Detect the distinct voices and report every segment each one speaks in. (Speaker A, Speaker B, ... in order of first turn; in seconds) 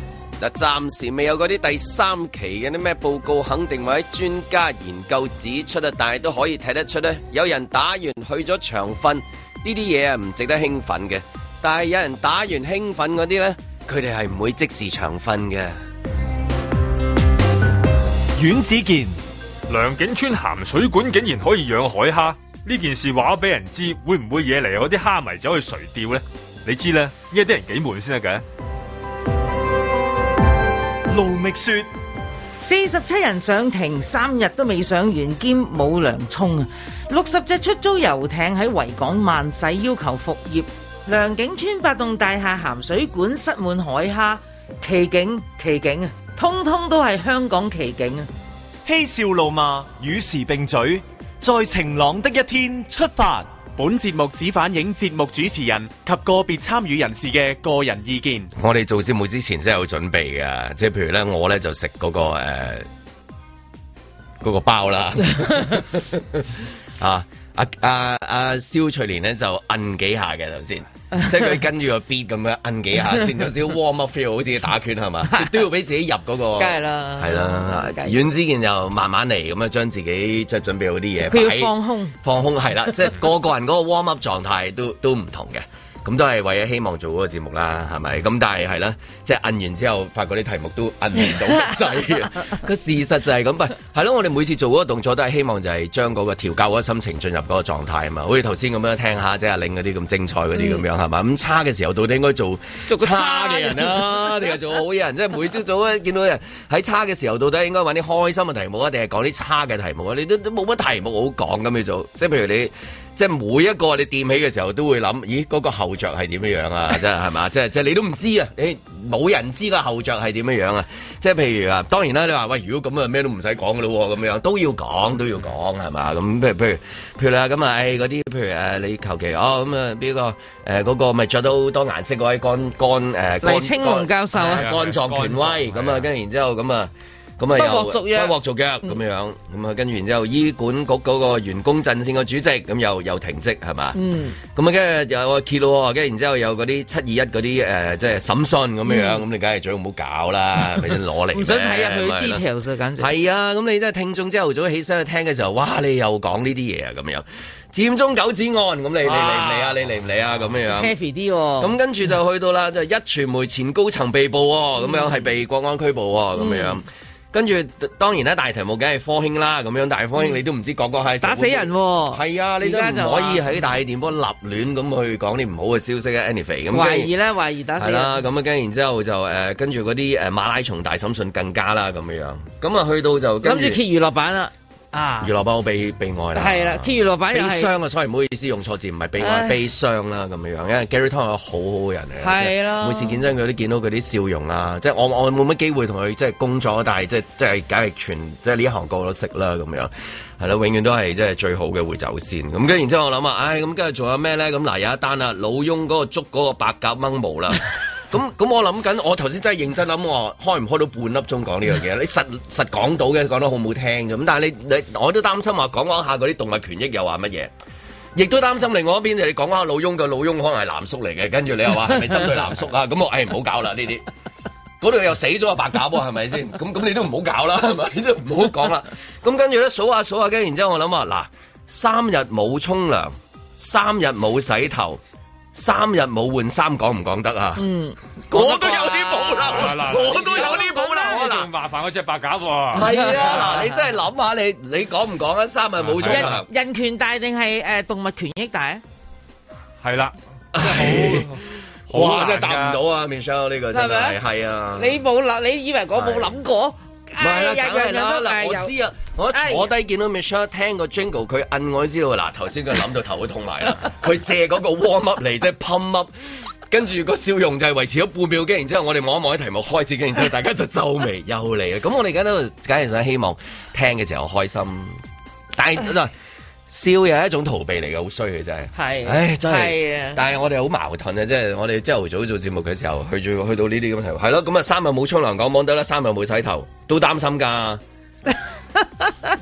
Speaker A: 0.4-15.8, 58.5-62.9, 64.4-152.4, 153.0-160.9, 161.6-177.1, 177.8-183.8, 185.2-217.5, 218.2-224.1, 224.8-235.0, 235.5-237.7, 238.3-241.5, 242.7-246.5, 250.5-255.0, 255.9-256.4, 257.2-275.0, 275.6-276.1, 276.7-287.8
Speaker B: 18.4-19.2, 31.1-31.9, 48.9-53.7, 56.0-56.4
Speaker C: 19.7-28.4, 134.3-136.1, 239.4-243.2, 245.8-246.4, 249.8-252.8
Speaker D: 32.6-48.3, 76.6-78.2, 81.3-82.2, 102.9-104.3, 133.4-134.7, 137.6-138.3, 143.9-144.4, 148.9-149.2, 151.3-153.1, 159.1-159.8, 160.7-161.8, 164.8-165.2, 166.4-166.8, 171.2-173.5, 176.7-178.2, 183.4-185.3, 186.3-187.7, 189.2-189.7, 192.2-193.2, 237.6-241.2, 242.8-243.7, 246.0-248.8, 253.7-254.2, 254.8-258.7, 259.3-259.7, 278.8-280.2, 288.8-289.3
Speaker E: 53.8-58.5